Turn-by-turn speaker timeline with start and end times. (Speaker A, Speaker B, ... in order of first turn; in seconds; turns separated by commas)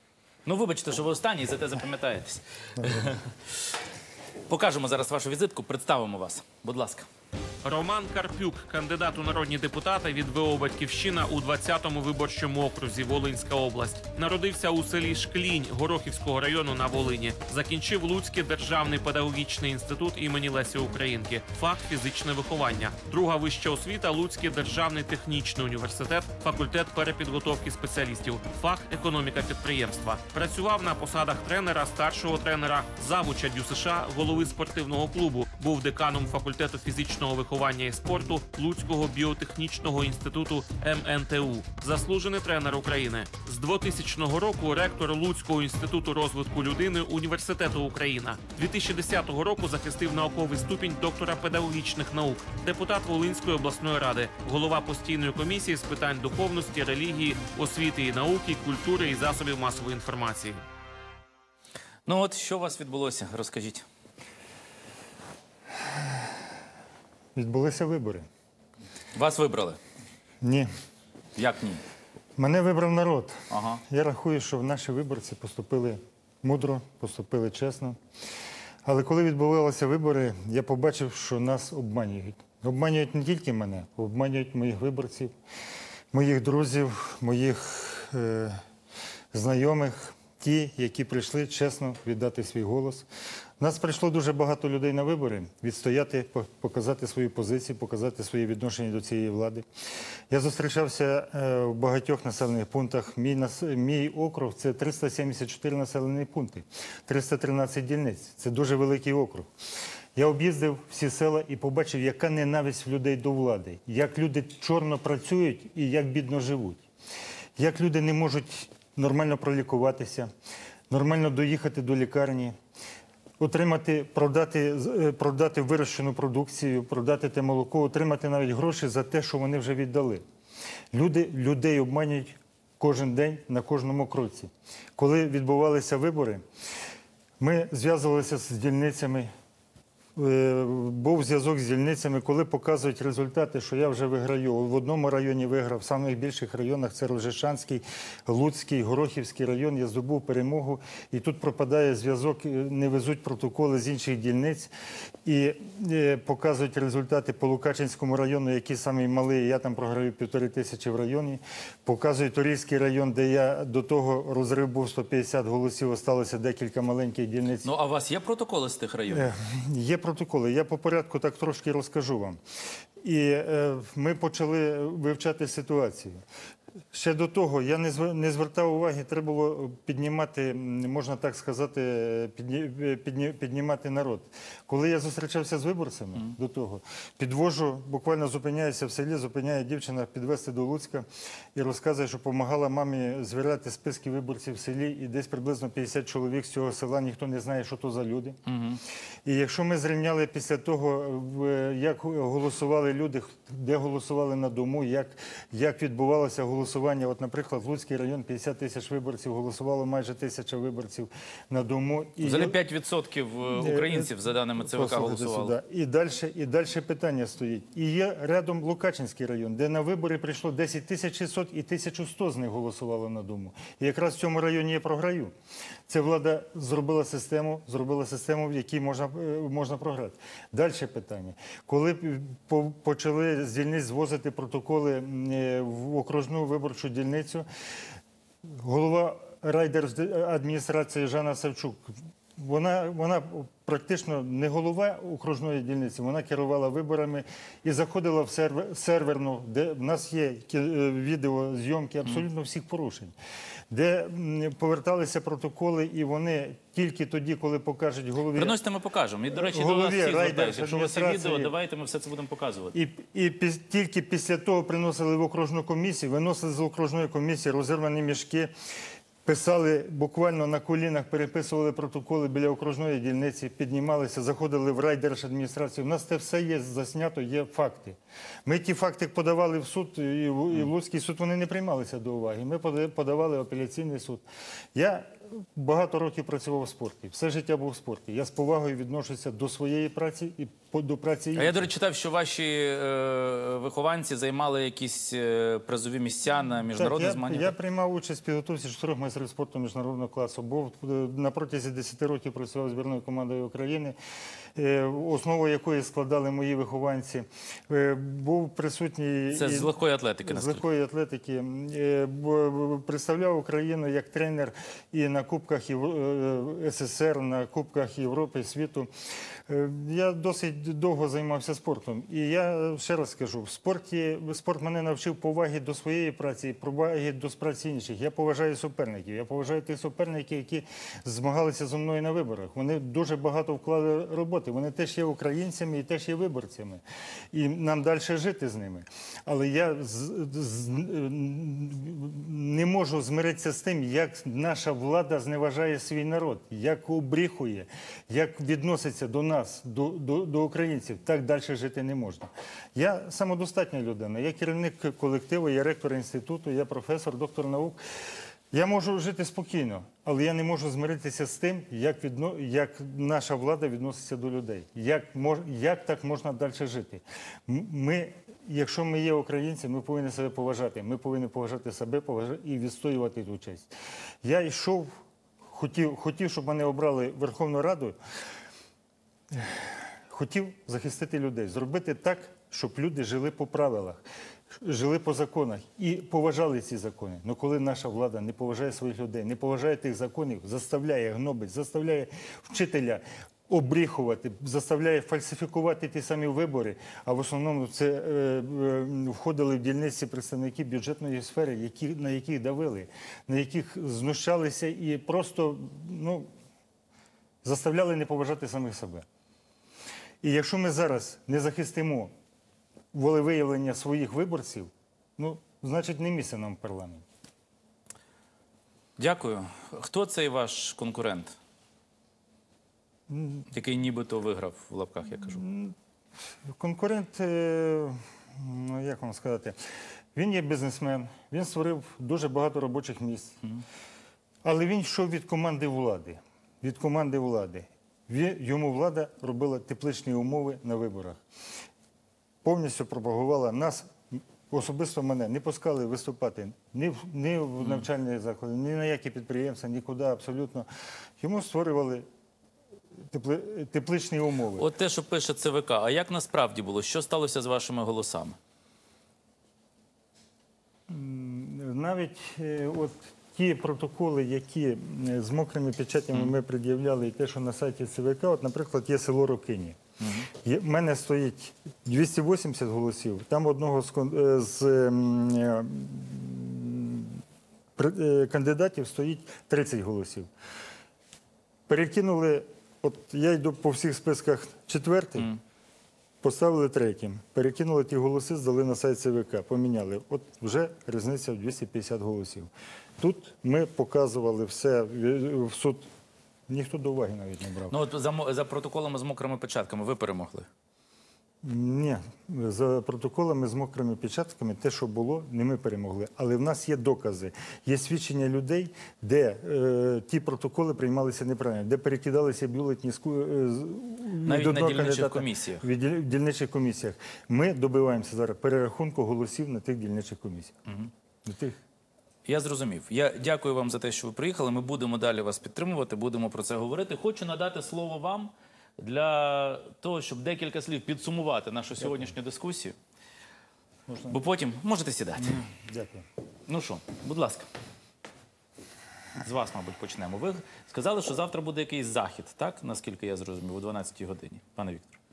Speaker A: 0.4-3.2, Speaker A: 4.5-7.1, Speaker B: 7.6-60.6, Speaker A: 62.1-63.8, Speaker C: 67.3-68.3, Speaker A: 69.2-69.8, Speaker C: 70.4-70.7, Speaker A: 71.3-71.8, Speaker C: 72.4-78.0, Speaker A: 73.5-73.8, Speaker C: 78.8-85.3, Speaker C: 86.1-88.6, Speaker C: 89.3-93.1, Speaker C: 93.6-99.7, Speaker C: 100.3-109.5, Speaker C: 110.2-116.8, Speaker C: 117.6-120.3, Speaker C: 120.9-122.6, Speaker C: 123.4-130.2, Speaker C: 130.9-136.4, Speaker C: 137.4-139.3, Speaker C: 140.2-154.7, Speaker C: 155.2-167.7, Speaker A: 167.6-169.3, Speaker C: 169.1-172.4, Speaker C: 173.0-176.2, Speaker C: 176.9-198.4, Speaker A: 198.5-198.8, Speaker C: 199.3-212.6, Speaker A: 212.2-215.5, Speaker C: 213.5-225.3, Speaker C: 225.9-237.5, Speaker C: 238.6-253.2, Speaker C: 253.7-258.6, Speaker A: 258.4-262.8, Speaker C: 259.3-261.5, Speaker C: 262.7-268.5, Speaker C: 269.2-284.2, Speaker C: 284.8-291.6, Speaker A: 291.4-297.5, Speaker C: 296.7-304.0, Speaker C: 304.6-318.9, Speaker A: 309.3-310.6, Speaker C: 319.5-357.8, Speaker C: 358.5-378.0, Speaker C: 379.3-406.3, Speaker C: 407.4-409.1, Speaker C: 410.2-412.1, Speaker C: 412.9-417.1, Speaker A: 419.0-421.3, Speaker C: 423.1-423.5, Speaker A: 423.5-425.4, Speaker C: 425.2-425.7, Speaker C: 426.5-429.6, Speaker C: 430.1-433.4, Speaker C: 434.4-441.2, Speaker C: 442.4-450.7, Speaker A: 447.6-447.9, Speaker C: 451.2-452.1, Speaker C: 453.1-454.7, Speaker A: 454.6-458.4, Speaker C: 460.9-469.8, Speaker A: 470.0-470.3, Speaker C: 470.4-477.2, Speaker C: 477.8-480.3, Speaker C: 481.7-485.3, Speaker C: 486.2-495.9, Speaker C: 496.5-497.8, Speaker A: 497.7-500.5, Speaker C: 501.4-520.6, Speaker A: 514.2-515.7, Speaker C: 521.2-521.6, Speaker A: 522.2-532.8, Speaker C: 533.9-534.2, Speaker A: 534.1-535.4, Speaker C: 535.2-536.1, Speaker A: 536.5-537.5, Speaker A: 539.2-545.0